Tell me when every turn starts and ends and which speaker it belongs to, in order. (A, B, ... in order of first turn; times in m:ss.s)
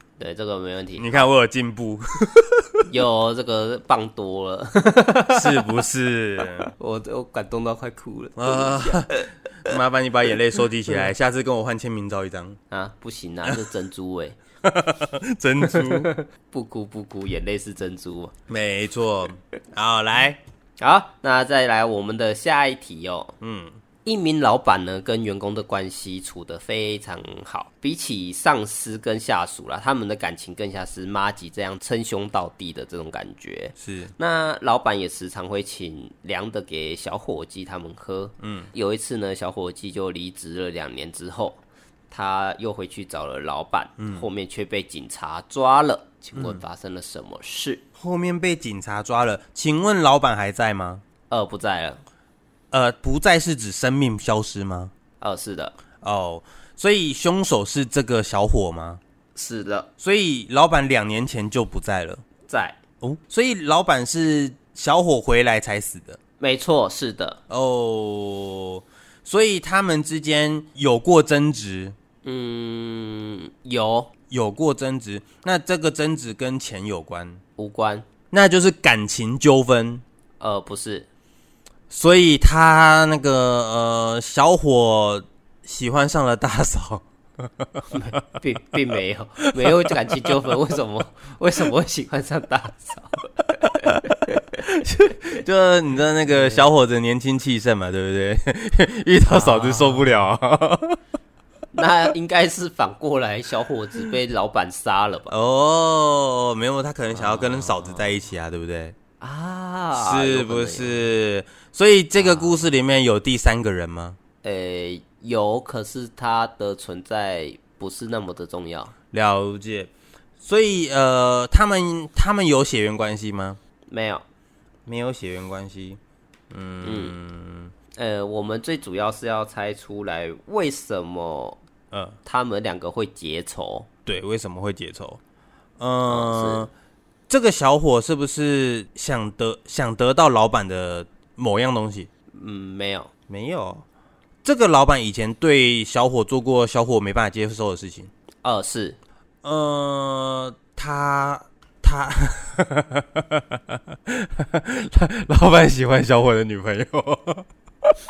0:00.2-0:01.3 A
0:01.0-0:02.9 B
0:02.9-0:05.6 A
0:05.3-0:06.7 B
0:06.7-0:09.3 A
0:08.4-0:12.6 B
0:12.7-0:14.4 A
0:14.6-0:16.1 B
0:15.7-0:18.3 A
0:18.5-0:20.4 B
0:20.8-0:23.3 A
0:23.4-0:23.8 B
0:24.0-0:47.8 A
0:33.8-0:34.1 B
0:38.4-0:38.7 B
0:44.0-0:44.3 B
0:46.3-0:46.6 B
0:48.0-0:51.0 B
0:51.3-0:52.0 A
0:52.7-0:54.9 B
0:55.2-0:55.8 A
0:56.0-0:59.0 B
0:59.4-0:59.9 A
1:00.0-1:02.2 B
1:02.5-1:02.8 A
1:03.0-1:06.2 B
1:06.4-1:07.4 A
1:07.5-1:12.0 B
1:12.2-1:14.1 A
1:14.3-1:17.4 B
1:17.6-1:18.0 A
1:18.3-1:20.0 B
1:20.4-1:21.1 A
1:21.9-1:27.0 B
1:27.9-1:34.6 A
1:34.6-1:41.0 B
1:36.3-1:36.6 A
1:39.3-1:40.2 A
1:41.7-1:45.3 A
1:45.3-1:49.0 B
1:47.1-1:48.2 A
1:49.2-1:51.0 A
1:49.9-1:54.2 B
1:52.2-1:52.7 A
1:54.4-1:58.9 A
1:59.1-1:59.9 B
2:00.4-2:03.6 B
2:03.9-2:04.2 A
2:04.8-2:06.0 B
2:06.5-2:07.7 B
2:06.8-2:07.1 A
2:07.9-2:11.6 A
2:11.9-2:12.2 B
2:12.2-2:13.9 A
2:14.0-2:15.2 B
2:15.8-2:16.7 B
2:16.0-2:16.7 A
2:17.3-2:22.1 B
2:22.3-2:23.1 A
2:23.3-2:23.8 B
2:24.4-2:28.1 B
2:28.4-2:29.0 A
2:29.4-2:37.9 B